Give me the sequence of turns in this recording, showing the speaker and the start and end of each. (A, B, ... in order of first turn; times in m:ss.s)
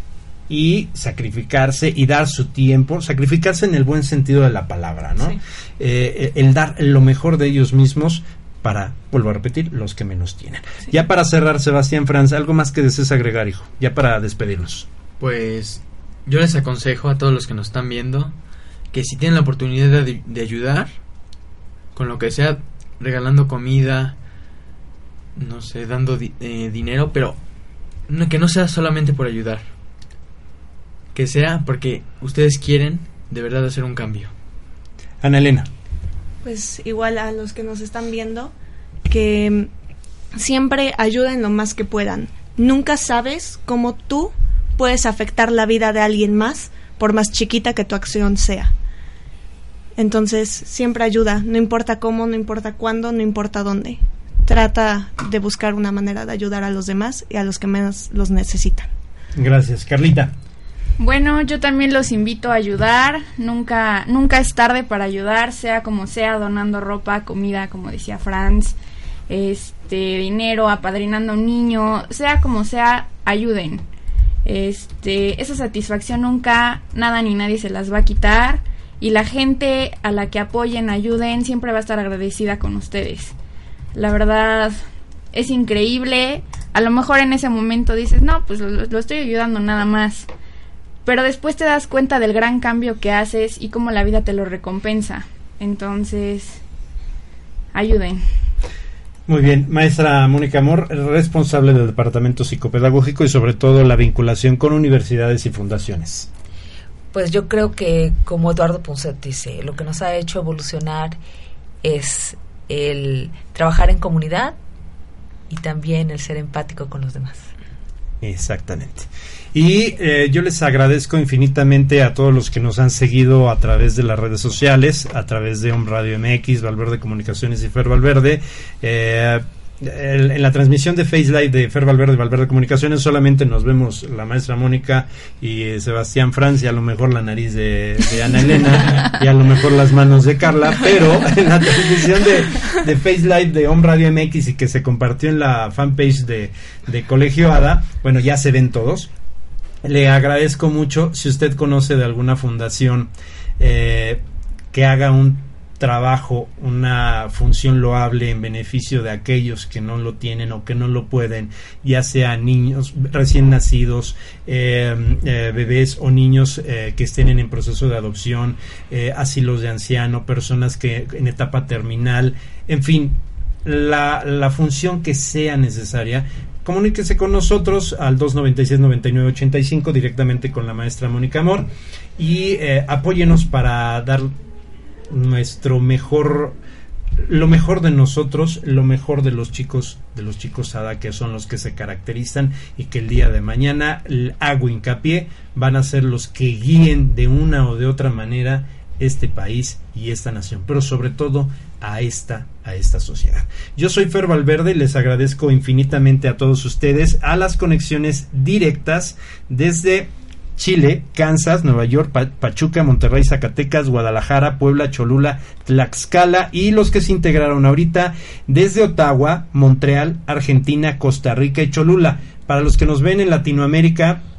0:00.5-0:14.9 A
0:15.2-0:18.3 B
0:18.9-0:21.0 B
0:21.9-0:24.2 B
0:25.4-0:27.4 B
0:28.1-0:29.7 B
0:31.1-0:34.3 B
0:35.2-0:35.7 A
0:36.4-0:38.5 C
0:39.1-0:39.7 C
0:40.3-0:48.7 C
0:50.0-0:58.9 C
0:59.3-1:00.3 A
1:01.0-1:08.8 D
1:09.3-1:13.8 D
1:14.4-1:23.3 D
1:23.9-1:30.3 D
1:31.0-1:36.6 D
1:37.7-1:38.2 D
1:39.3-1:46.3 A
1:47.1-1:51.2 E
1:51.8-1:54.6 E
1:55.5-1:57.5 E
1:58.2-2:29.1 A
2:29.8-3:04.3 A
3:05.1-3:06.6 A
3:07.2-3:44.2 A